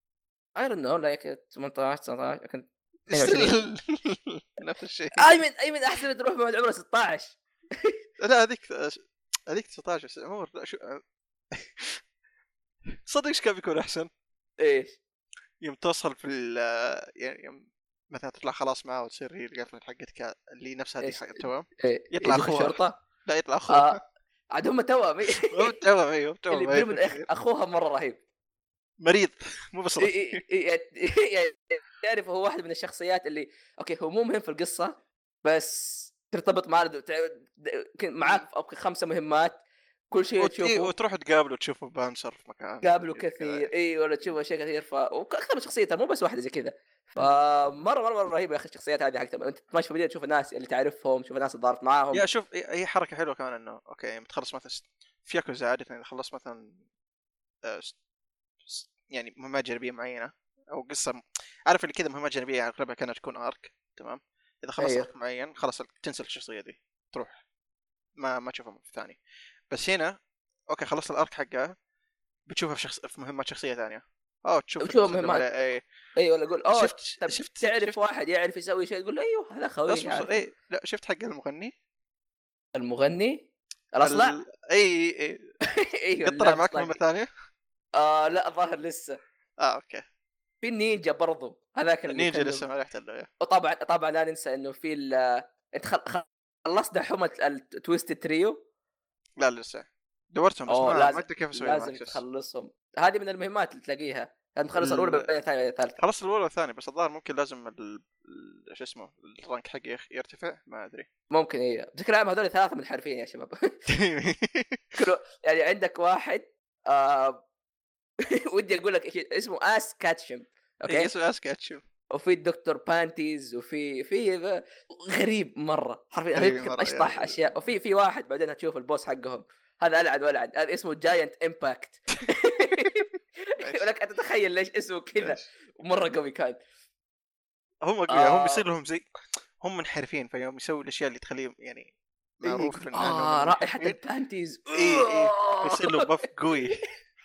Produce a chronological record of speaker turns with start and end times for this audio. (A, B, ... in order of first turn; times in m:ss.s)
0:00.6-0:03.6 A
0:03.1-0:05.3 B
0:05.2-0:08.0 A
0:08.2-0:11.0 B
0:11.5-0:12.0 B
0:13.1-0:14.1 B
0:14.6-0:15.0 A
0:15.6-0:24.0 B
0:21.0-0:22.9 A
0:23.7-0:24.0 A
0:24.5-0:25.8 A
0:25.3-0:27.3 B
0:26.5-0:28.2 A
0:29.0-0:30.4 B
0:30.0-0:40.9 A
0:40.4-0:43.7 B
0:42.8-0:52.3 A
0:52.1-0:56.8 B
0:57.6-0:58.0 B
0:58.6-1:07.4 B
1:04.8-1:05.1 A
1:08.2-1:09.2 B
1:09.7-1:10.1 B
1:10.7-1:11.8 B
1:12.5-1:15.8 B
1:14.8-1:15.4 A
1:16.2-1:20.4 A
1:16.7-1:18.0 B
1:19.9-1:21.7 B
1:22.8-1:23.4 A
1:24.0-1:24.4 A
1:24.0-1:25.5 B
1:25.6-1:27.0 A
1:26.2-1:27.3 B
1:28.0-1:29.2 A
1:29.6-1:30.0 B
1:30.6-1:32.6 A
1:32.1-1:33.3 B
1:33.4-1:38.6 A
1:39.4-1:42.2 B
1:40.7-1:46.0 A
1:44.8-1:45.3 B
1:46.0-1:51.1 B
1:51.3-1:53.8 A
1:53.9-1:55.0 B
1:55.0-1:57.4 A
1:58.2-2:01.1 A
2:00.9-2:01.8 B
2:02.1-2:16.6 A
2:06.3-2:07.6 B
2:13.6-2:13.9 B
2:17.8-2:19.1 B
2:18.1-2:18.6 A
2:19.6-2:24.0 B
2:22.4-2:26.1 A
2:24.7-2:26.8 B